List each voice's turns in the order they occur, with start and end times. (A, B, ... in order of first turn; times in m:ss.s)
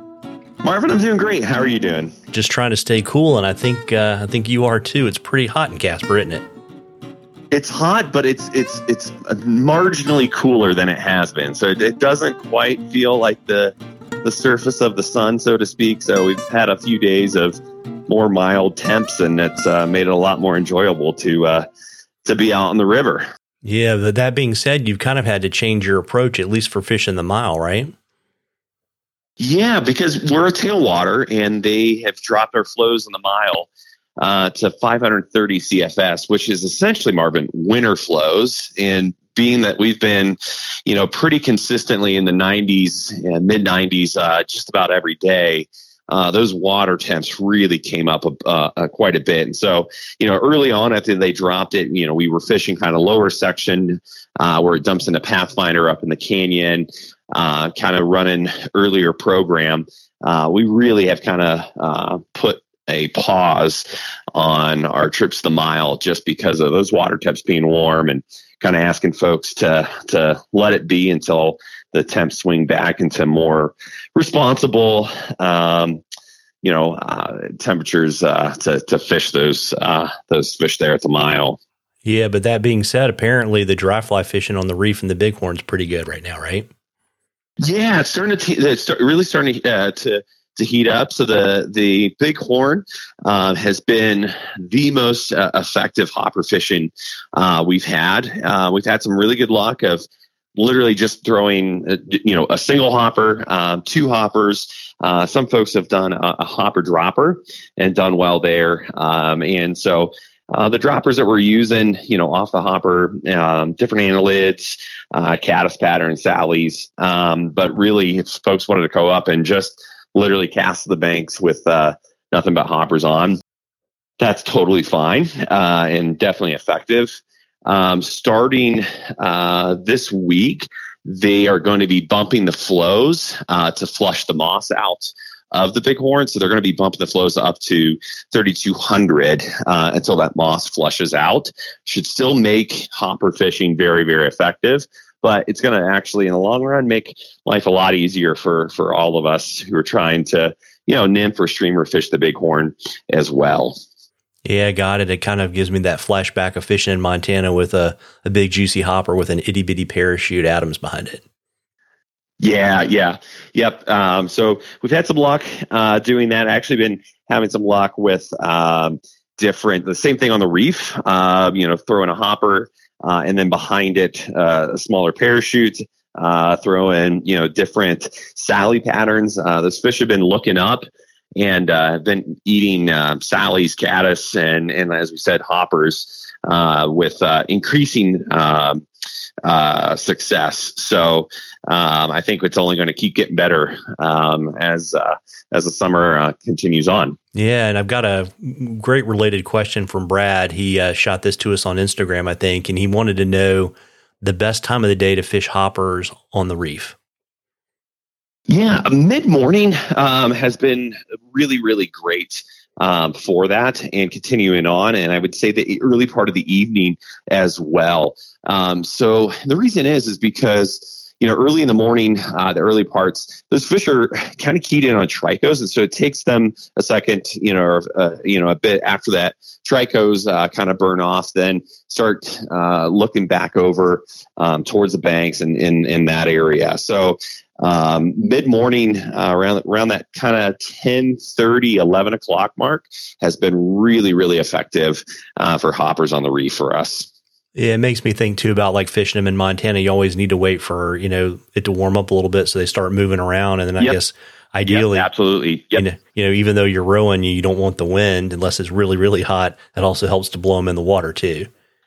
0:00.6-0:02.1 A
0:02.3-0:06.4 B
0:07.5-0:21.6 A
0:22.2-0:23.2 A
0:23.6-0:27.9 B
0:29.4-1:16.0 A
1:16.6-1:21.6 A
1:22.0-1:26.7 B
1:27.6-1:40.0 A
1:40.6-2:03.4 A
2:04.2-2:33.8 A
2:34.4-2:41.2 B
2:42.4-3:00.8 A
3:01.4-3:08.8 A
3:09.4-3:17.2 A
3:17.3-3:27.0 B
3:28.5-4:07.1 A
4:07.5-4:15.1 B
4:14.6-4:15.8 A
4:15.7-4:21.5 B